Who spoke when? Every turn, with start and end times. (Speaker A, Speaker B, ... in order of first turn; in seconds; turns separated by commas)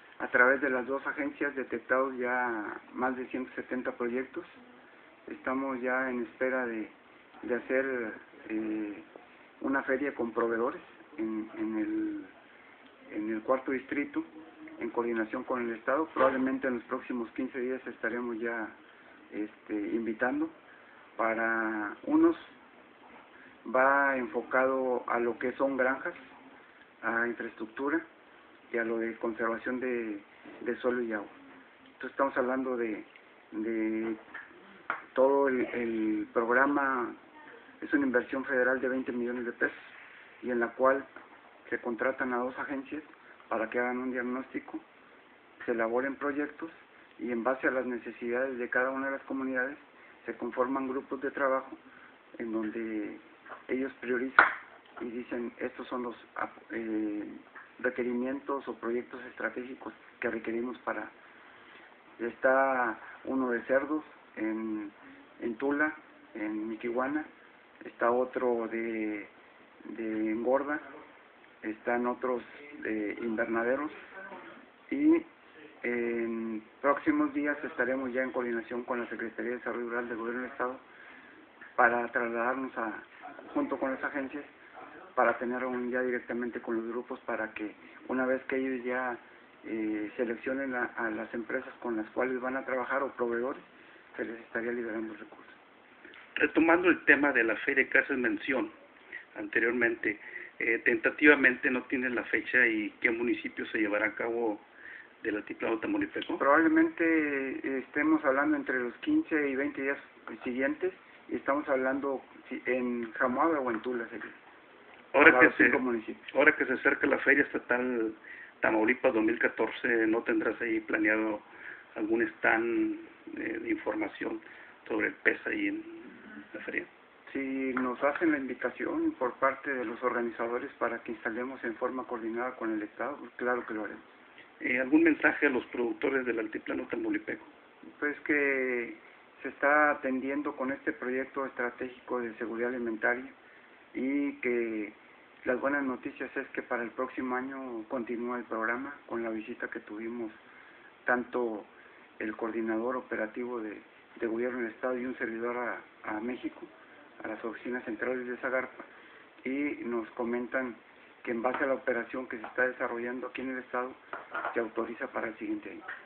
Speaker A: 0.2-4.6, Speaker A: 5.3-9.1, Speaker A: 9.6-12.3, Speaker A: 13.1-14.3, Speaker A: 14.8-18.8, Speaker A: 19.3-20.5, Speaker A: 21.2-22.6, Speaker A: 23.6-26.4, Speaker A: 27.0-28.0, Speaker A: 28.7-31.3, Speaker A: 32.0-34.2, Speaker A: 35.1-37.2, Speaker A: 37.8-41.1, Speaker A: 41.7-44.8, Speaker A: 45.6-51.8, Speaker A: 52.4-61.1, Speaker A: 62.2-67.3, Speaker A: 67.8-69.3, Speaker A: 69.8-70.8, Speaker A: 71.6-74.1, Speaker A: 74.9-75.3, Speaker A: 75.8-80.8, Speaker A: 81.8-84.5, Speaker A: 85.2-95.6, Speaker B: 96.4-98.7, Speaker B: 99.3-104.6, Speaker B: 105.2-106.4, Speaker A: 106.4-114.3, Speaker B: 115.1-115.8, Speaker A: 115.2-116.2, Speaker B: 116.3-126.9, Speaker A: 127.3-134.0, Speaker B: 134.6-137.5, Speaker A: 138.0-143.3, Speaker A: 143.9-150.4, Speaker A: 151.1-156.7, Speaker A: 157.2-158.8, Speaker A: 159.4-164.0, Speaker A: 164.5-165.8